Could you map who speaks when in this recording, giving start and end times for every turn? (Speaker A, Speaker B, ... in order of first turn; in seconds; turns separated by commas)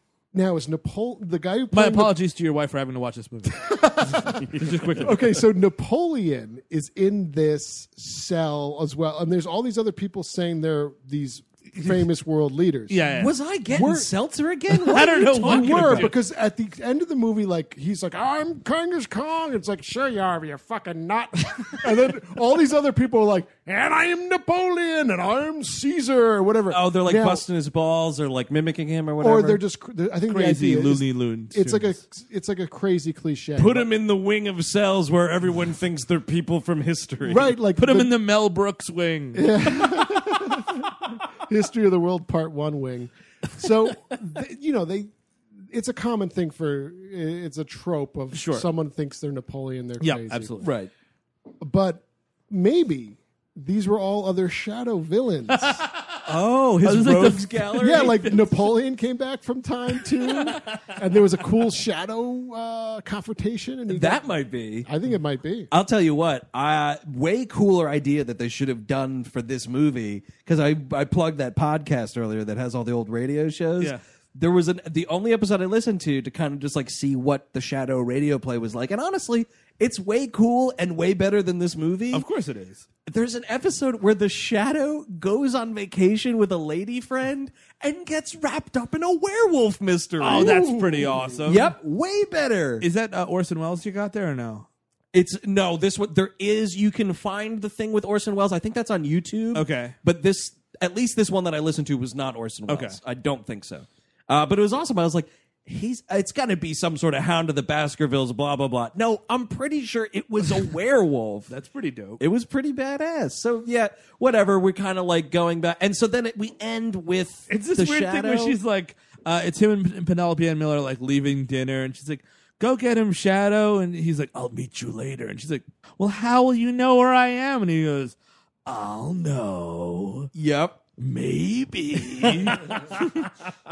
Speaker A: 0.3-2.1, Speaker B: 1.7-5.3, Speaker A: 3.7-14.1, Speaker B: 12.9-13.3, Speaker C: 13.2-16.1, Speaker B: 14.8-16.1, Speaker A: 14.9-27.4, Speaker C: 26.7-29.6, Speaker A: 29.2-33.9, Speaker B: 30.3-32.0, Speaker C: 33.6-37.5, Speaker A: 37.2-38.1, Speaker B: 37.8-39.6, Speaker A: 39.3-50.5, Speaker B: 48.3-48.6, Speaker B: 50.0-50.7, Speaker C: 50.6-50.9, Speaker A: 51.6-55.8, Speaker B: 55.5-56.2, Speaker C: 56.2-58.4, Speaker B: 56.8-58.3, Speaker A: 57.8-65.7, Speaker B: 60.2-60.9, Speaker C: 63.9-64.9, Speaker C: 65.7-82.2, Speaker B: 82.1-82.8, Speaker C: 83.0-90.6, Speaker B: 90.2-91.7, Speaker A: 90.2-91.5, Speaker C: 91.5-92.8, Speaker B: 92.8-94.7, Speaker C: 95.1-111.5, Speaker B: 99.5-100.0, Speaker B: 102.7-103.0, Speaker B: 111.5-112.2, Speaker C: 112.2-118.6, Speaker B: 117.5-130.3, Speaker C: 130.3-130.8, Speaker B: 131.0-133.0, Speaker C: 132.5-132.9